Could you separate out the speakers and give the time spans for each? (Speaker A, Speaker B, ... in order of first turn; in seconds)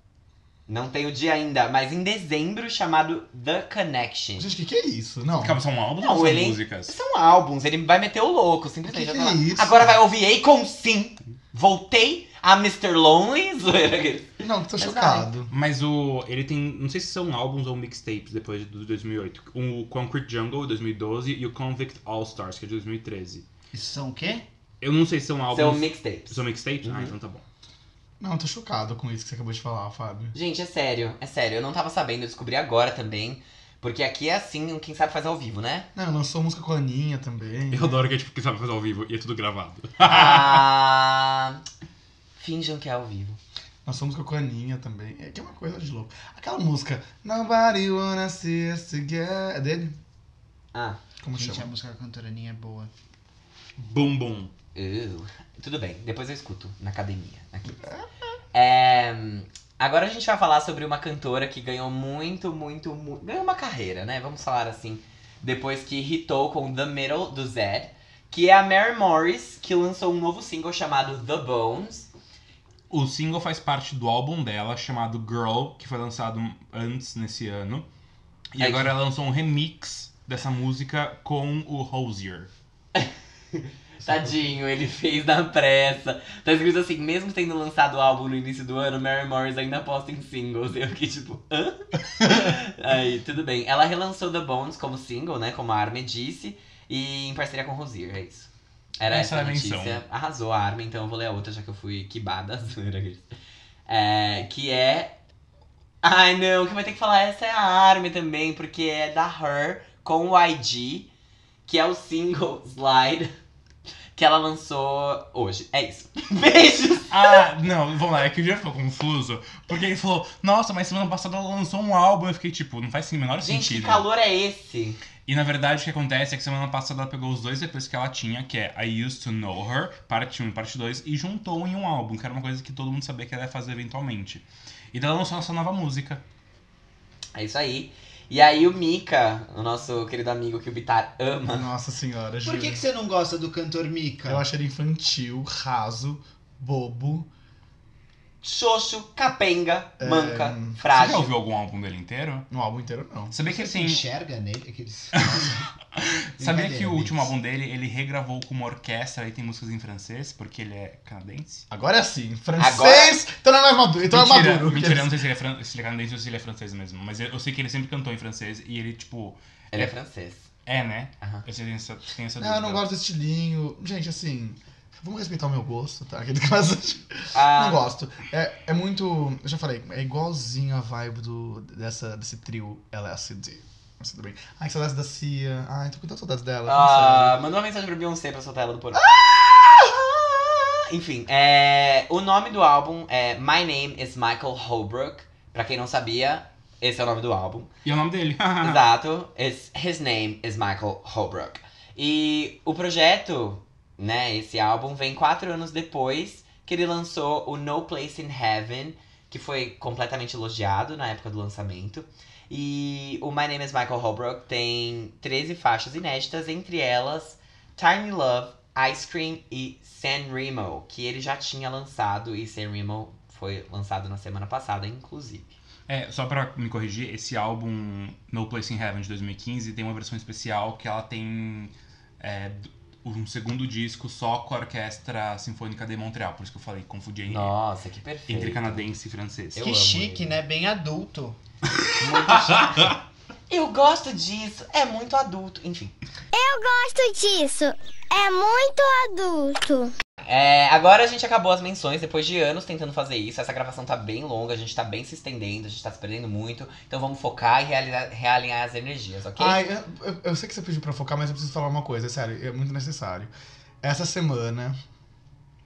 Speaker A: 0.7-4.5, 6.0-15.3, 25.5-27.1, 30.3-35.9, 40.0-41.6, 42.4-43.4, 50.7-51.0, 54.7-57.9, 58.5-72.1, 78.6-78.9, 82.9-98.5, 99.0-103.2, 103.9-105.2, 106.0-111.1, 111.7-113.3, 114.1-117.4, 123.4-125.0, 137.3-141.7, 148.4-151.3, 162.6-163.2, 169.7-170.5, 177.3-177.9, 186.7-189.2, 190.1-197.7, 198.6-225.5, 237.2-238.8, 239.5-240.3, 242.0-242.9, 243.5-245.9, 250.2-259.6
Speaker B: 4.4-5.6, 8.9-9.9, 14.4-15.5, 28.2-30.3, 35.9-38.0, 43.8-50.0, 51.2-51.7, 141.4-142.8, 144.2-147.3, 150.0-150.8, 152.5-153.3, 161.7-165.2, 172.4-187.4, 189.0-189.3, 259.4-263.3, 263.8-264.8
Speaker C: 5.3-6.9, 15.5-23.4, 24.8-27.4, 37.7-40.6, 53.8-54.5, 72.9-77.8, 78.5-82.5, 99.1-100.0, 117.1-124.0, 125.2-136.2, 150.9-152.5, 153.3-154.1, 155.2-161.7, 164.1-169.9, 170.7-172.8, 197.8-198.8, 225.9-237.5, 238.3-239.7, 242.4-242.9
Speaker D: 23.7-24.4, 51.3-52.9, 142.4-144.4, 153.4-155.6, 156.4-157.3, 239.6-241.4
Speaker E: 246.3-249.9